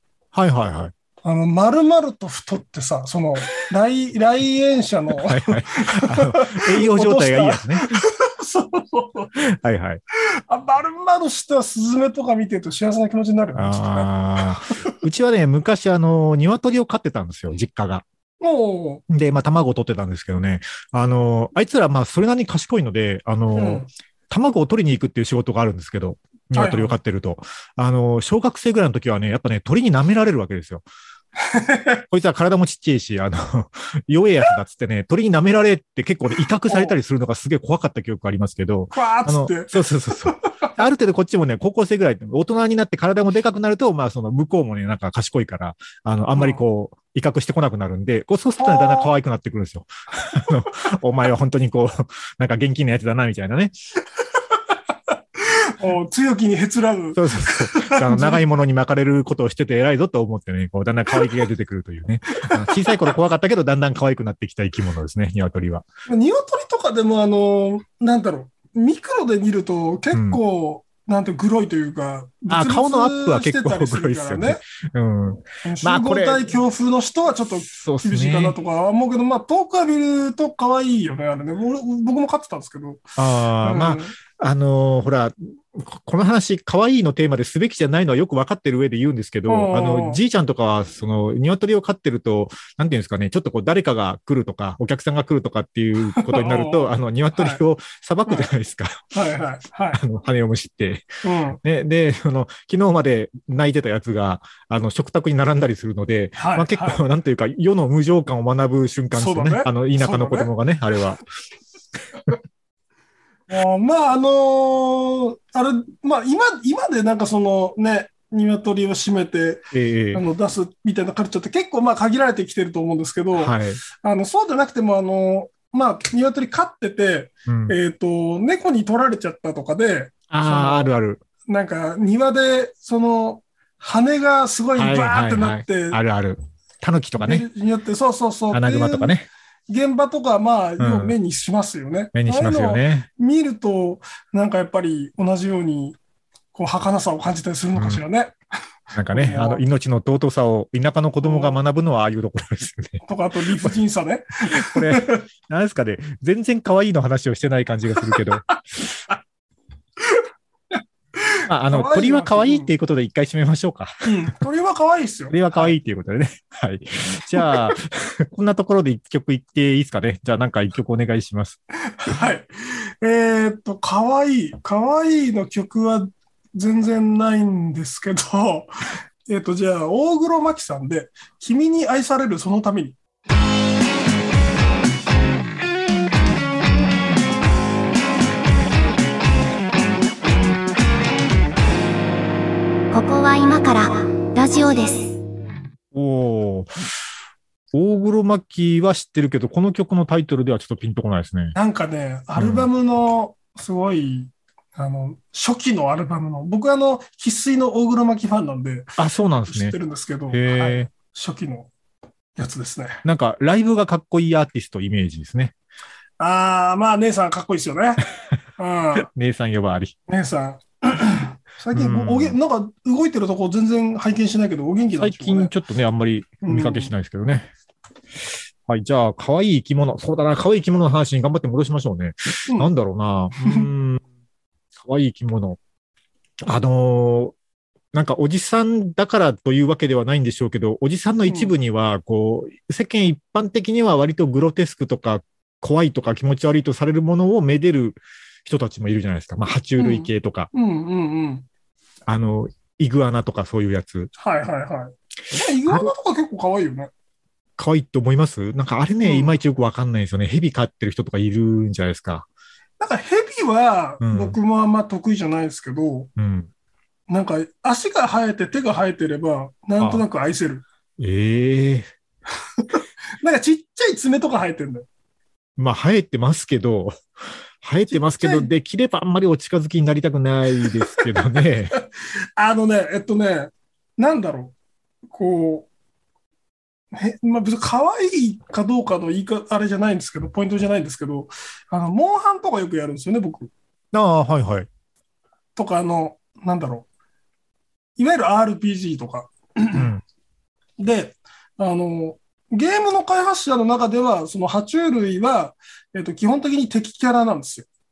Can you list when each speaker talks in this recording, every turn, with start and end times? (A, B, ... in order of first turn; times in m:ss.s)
0:00.3-0:00.9 A
0:01.2-0:09.3 B
0:05.2-0:08.0 A
0:09.4-0:10.0 A
0:10.5-0:14.1 B
0:13.6-0:18.0 A
0:18.4-0:19.0 B
0:19.1-0:30.8 A
0:23.5-0:23.9 B
0:26.6-0:27.0 B
0:31.4-0:32.0 B
0:32.1-0:53.7 A
0:36.7-0:36.9 B
0:38.9-0:39.8 B
0:40.3-0:40.7 B
0:46.4-0:46.6 B
0:48.6-0:49.1 B
0:55.4-0:58.4 B
0:57.2-1:05.8 A
1:02.4-1:03.1 B
1:06.1-1:14.6 B
1:10.1-1:10.4 A
1:12.5-1:16.5 A
1:15.6-1:23.0 B
1:17.5-1:18.6 A
1:23.2-1:39.0 A
1:23.6-1:24.2 B
1:29.5-1:30.2 B
1:36.1-1:37.6 B
1:39.1-1:40.0 B
1:39.9-1:41.1 A
1:41.2-1:41.6 B
1:41.6-1:51.2 A
1:46.4-1:47.0 B
1:49.1-1:50.5 B
1:53.5-2:10.9 B
1:59.7-2:00.2 A
2:03.4-2:03.8 A
2:07.5-2:07.8 A
2:10.3-2:11.2 A
2:11.5-2:16.0 B
2:14.8-2:17.5 A
2:17.2-2:19.1 B
2:18.5-2:19.3 A
2:19.7-2:26.0 B
2:20.8-2:21.2 A
2:22.1-2:23.1 A
2:26.5-2:28.4 B
2:27.8-2:28.0 A
2:28.9-2:33.0 A
2:29.1-2:29.6 B
2:31.2-2:31.6 B
2:33.0-2:35.2 B
2:34.5-2:39.0 A
2:41.2-2:42.7 B
2:41.5-2:44.3 A
2:44.0-2:45.8 B
2:45.3-2:51.6 A
2:47.4-2:47.7 B
2:51.9-2:58.7 B
2:59.3-3:03.0 B
3:12.9-3:15.2 C
3:15.9-3:16.7 A
3:17.7-3:21.6 A
3:21.6-3:29.0 B
3:22.4-3:22.7 A
3:29.0-3:29.8 A
3:29.5-3:31.7 B
3:30.3-3:30.9 A
3:32.4-3:33.0 B
3:33.0-3:35.5 A
3:36.2-3:38.1 B
3:38.6-3:39.1 B
3:39.0-3:40.0 A
3:40.1-3:45.5 B
3:41.7-3:42.4 A
3:45.0-3:47.5 A
3:46.4-3:46.9 B
3:48.7-3:54.0 A
3:53.4-3:53.7 B
3:54.8-3:55.6 A
3:56.4-3:57.4 A
3:57.9-4:10.5 A
4:01.3-4:01.5 B
4:09.8-4:11.5 B
4:12.1-4:14.1 A
4:14.2-4:16.9 B
4:17.6-4:22.3 A
4:19.0-4:19.4 B
4:22.8-4:26.1 B
4:24.0-4:24.4 A
4:26.2-4:26.5 A
4:27.1-4:30.6 B
4:29.8-4:30.0 A
4:31.0-4:31.9 A
4:32.6-4:34.9 B
4:35.6-4:37.0 A
4:37.6-4:41.8 A
4:37.9-4:38.5 B
4:42.4-4:44.5 B
4:45.1-4:45.7 B
4:46.9-4:53.5 B
4:53.9-4:54.7 A
4:55.6-4:56.9 B
4:58.0-4:59.9 B
4:59.7-5:00.0 A
5:00.8-5:07.7 B